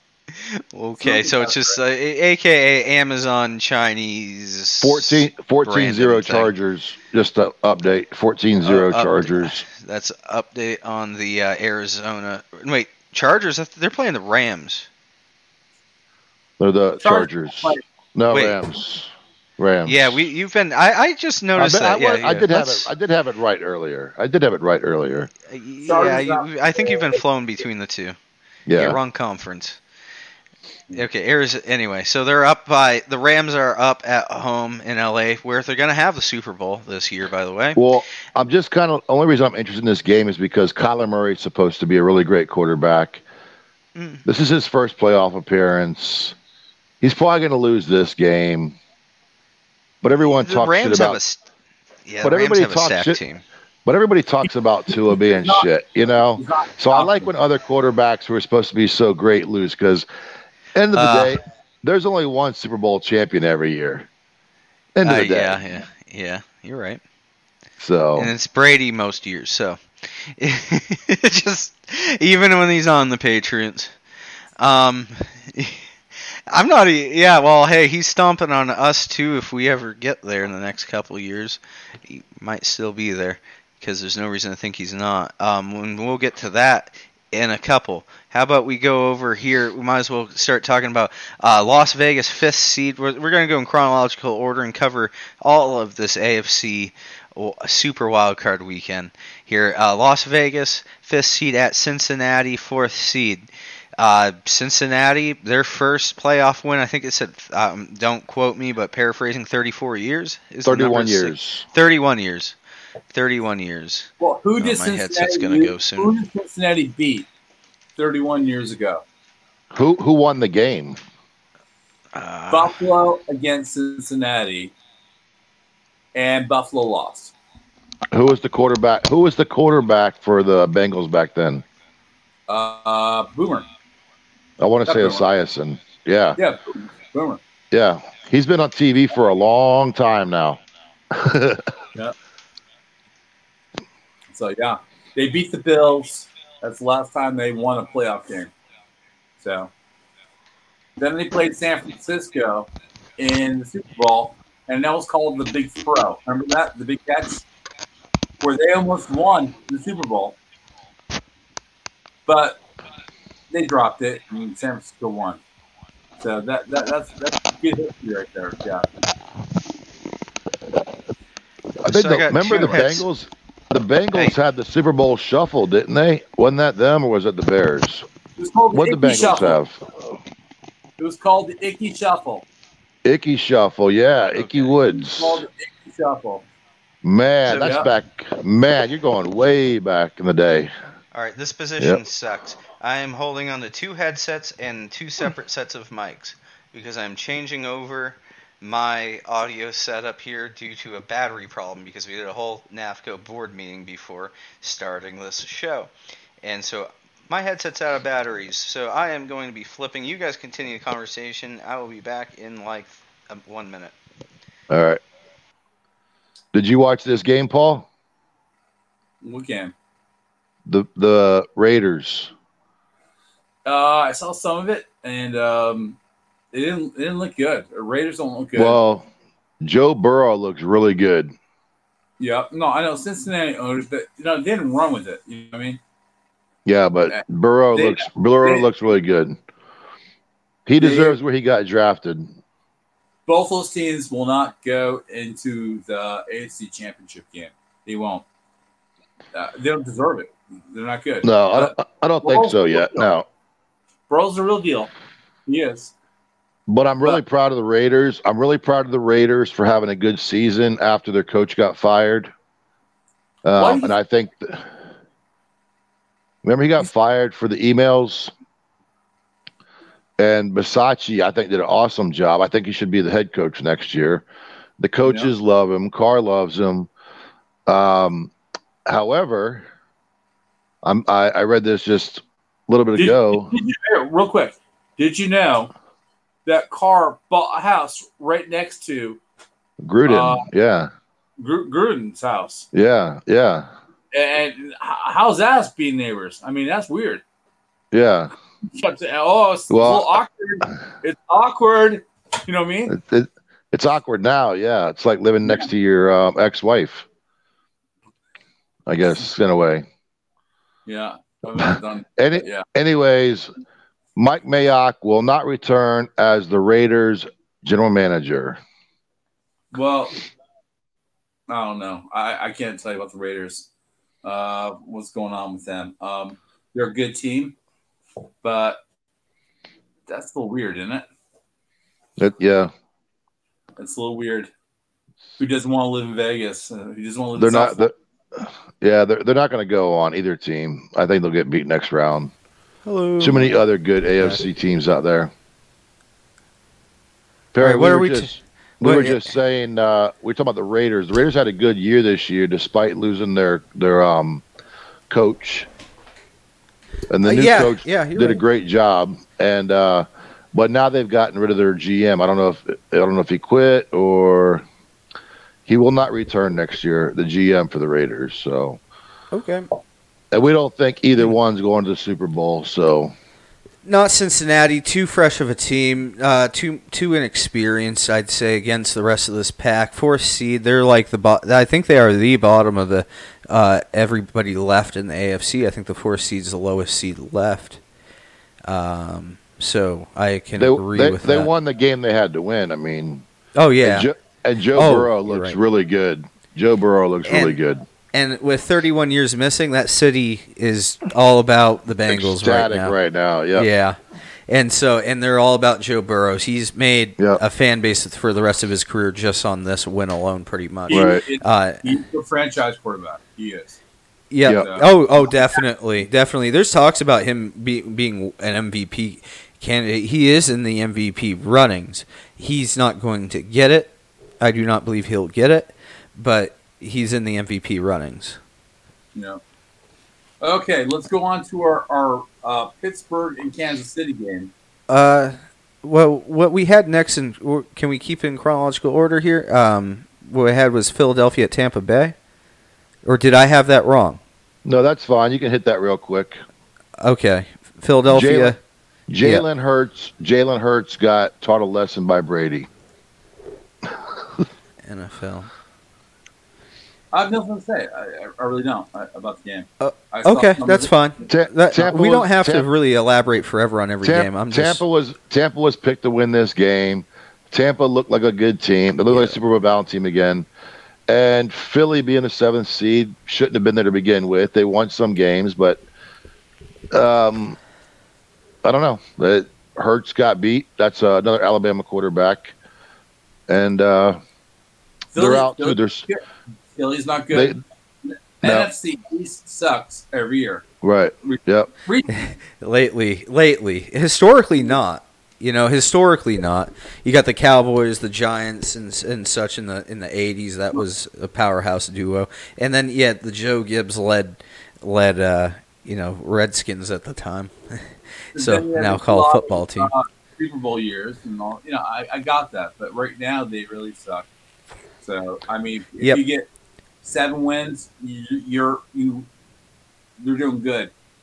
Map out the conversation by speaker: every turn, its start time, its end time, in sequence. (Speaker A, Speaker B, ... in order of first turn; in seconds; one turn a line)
Speaker A: 0.3-6.5
Speaker B: 1.0-1.8
Speaker C: 4.8-9.6
Speaker A: 8.7-14.9
Speaker C: 16.6-20.1
Speaker B: 17.0-17.8
Speaker A: 18.3-18.6
Speaker A: 19.9-22.9
Speaker C: 21.6-25.3
Speaker A: 25.5-28.1
Speaker B: 25.9-27.2
Speaker C: 28.7-29.0
Speaker A: 28.7-29.8
Speaker A: 30.9-37.8
Speaker C: 37.8-43.2
Speaker A: 44.0-44.2
Speaker C: 44.2-46.3
Speaker C: 47.0-48.8
Speaker C: 50.0-51.2
Speaker A: 50.4-51.5
Speaker A: 52.0-53.4
Speaker C: 52.2-53.2
Speaker C: 53.9-60.0
Speaker B: 55.2-57.3
Speaker C: 60.7-64.1
Speaker A: 60.9-61.4
Speaker C: 65.0-65.6
Speaker A: 65.0-67.0
Speaker C: 67.8-68.3
Speaker A: 68.2-74.0
Speaker A: 74.6-75.8
Speaker A: 76.5-103.5
Speaker A: 104.0-112.5
Speaker C: 110.6-111.6
Speaker A: 113.1-116.1
Speaker B: 114.2-117.3
Speaker B: 118.0-119.0
Speaker C: 119.7-121.0
Speaker A: 122.1-122.8
Speaker B: 122.5-124.7
Speaker B: 126.1-127.3
Speaker C: 128.1-131.6
Speaker B: 132.5-133.7
Speaker C: 134.6-136.4
Speaker B: 134.8-135.2
Speaker B: 136.4-137.4
Speaker C: 137.7-140.6
Speaker C: 141.1-141.7
Speaker B: 144.3-148.5
Speaker B: 149.4-149.7
Speaker B: 151.0-157.4
Speaker B: 158.4-160.4
Speaker B: 162.3-162.6
Speaker B: 163.5-165.4
Speaker B: 166.2-168.9
Speaker A: 171.8-173.1
Speaker C: 171.8-178.0
Speaker B: 178.4-179.6
Speaker C: 178.7-179.9
Speaker B: 181.0-182.4
Speaker C: 183.0-185.4
Speaker A: 184.3-184.7
Speaker B: 184.9-186.4
Speaker C: 187.0-190.7
Speaker A: 187.4-187.8
Speaker B: 187.6-187.9
Speaker A: 191.1-205.9
Speaker A: 206.4-213.9
Speaker C: 214.7-215.0
Speaker C: 216.5-217.9
Speaker B: 219.2-219.7
Speaker C: 220.7-222.3
Speaker B: 223.6-226.0
Speaker B: 226.5-228.8
Speaker C: 228.5-229.1
Speaker C: 229.6-231.3
Speaker B: 232.2-235.8
Speaker C: 236.6-239.4
Speaker B: 237.7-238.7
Speaker C: 240.7-242.3
Speaker B: 240.8-241.2
Speaker B: 243.2-248.2
Speaker B: 249.3-253.1
Speaker C: 251.2-253.2
Speaker B: 254.1-254.9
Speaker B: 255.5-255.9
Speaker C: 256.7-262.3
Speaker C: 263.4-264.7
Speaker B: 263.6-263.9
Speaker C: 266.4-268.3
Speaker C: 270.2-274.2
Speaker C: 274.8-276.9
Speaker B: 275.0-275.3
Speaker C: 277.7-278.3
Speaker C: 278.9-279.6
Speaker C: 280.8-283.5
Speaker B: 282.9-285.7
Speaker B: 286.4-289.2
Speaker C: 289.8-290.9
Speaker B: 290.1-290.5
Speaker B: 291.4-292.7
Speaker C: 292.7-293.7
Speaker B: 294.1-297.2
Speaker C: 297.9-298.3
Speaker B: 298.6-302.9
Speaker C: 299.7-300.1
Speaker C: 302.9-307.1
Speaker C: 308.9-309.8
Speaker B: 310.9-312.6
Speaker C: 312.2-313.5
Speaker C: 314.1-318.6
Speaker B: 319.7-320.2
Speaker B: 321.5-323.7
Speaker B: 324.2-327.5
Speaker B: 328.4-328.8
Speaker B: 330.1-331.1
Speaker C: 332.2-332.7
Speaker B: 333.8-334.5
Speaker B: 335.4-337.9
Speaker C: 337.4-342.3
Speaker A: 342.9-343.6
Speaker C: 343.2-345.3
Speaker C: 347.5-354.4
Speaker A: 347.6-349.3
Speaker C: 355.1-355.7
Speaker C: 357.1-364.6
Speaker A: 357.2-358.4
Speaker C: 365.7-368.8
Speaker A: 369.3-369.7
Speaker C: 370.3-373.1
Speaker A: 373.8-387.8
Speaker A: 388.6-391.5
Speaker C: 390.6-393.2
Speaker A: 393.6-394.1
Speaker C: 393.8-397.8
Speaker A: 394.7-395.6
Speaker A: 397.2-397.6
Speaker A: 398.1-402.9
Speaker C: 402.1-403.7
Speaker A: 403.6-412.0
Speaker B: 410.9-413.8
Speaker C: 410.9-411.2
Speaker A: 414.3-428.4
Speaker B: 414.5-415.5
Speaker B: 429.1-429.4
Speaker B: 430.4-434.5
Speaker A: 434.9-442.1
Speaker A: 443.0-444.2
Speaker C: 444.6-446.4
Speaker A: 447.0-448.6
Speaker C: 448.1-448.5
Speaker C: 449.1-452.7
Speaker A: 454.8-455.5
Speaker B: 457.1-460.9
Speaker A: 459.8-464.8
Speaker C: 461.3-462.6
Speaker C: 464.0-470.5
Speaker A: 469.1-469.4
Speaker C: 471.1-475.8
Speaker C: 476.9-477.6
Speaker C: 478.6-482.5
Speaker C: 483.5-484.2
Speaker B: 485.1-486.2
Speaker C: 485.1-486.1
Speaker B: 486.7-490.6
Speaker C: 487.3-487.6
Speaker C: 488.4-488.7
Speaker C: 490.8-491.7
Speaker B: 491.2-492.1
Speaker A: 492.1-509.9
Speaker B: 508.4-514.2
Speaker B: 515.0-516.5
Speaker B: 517.0-519.3
Speaker B: 520.2-520.9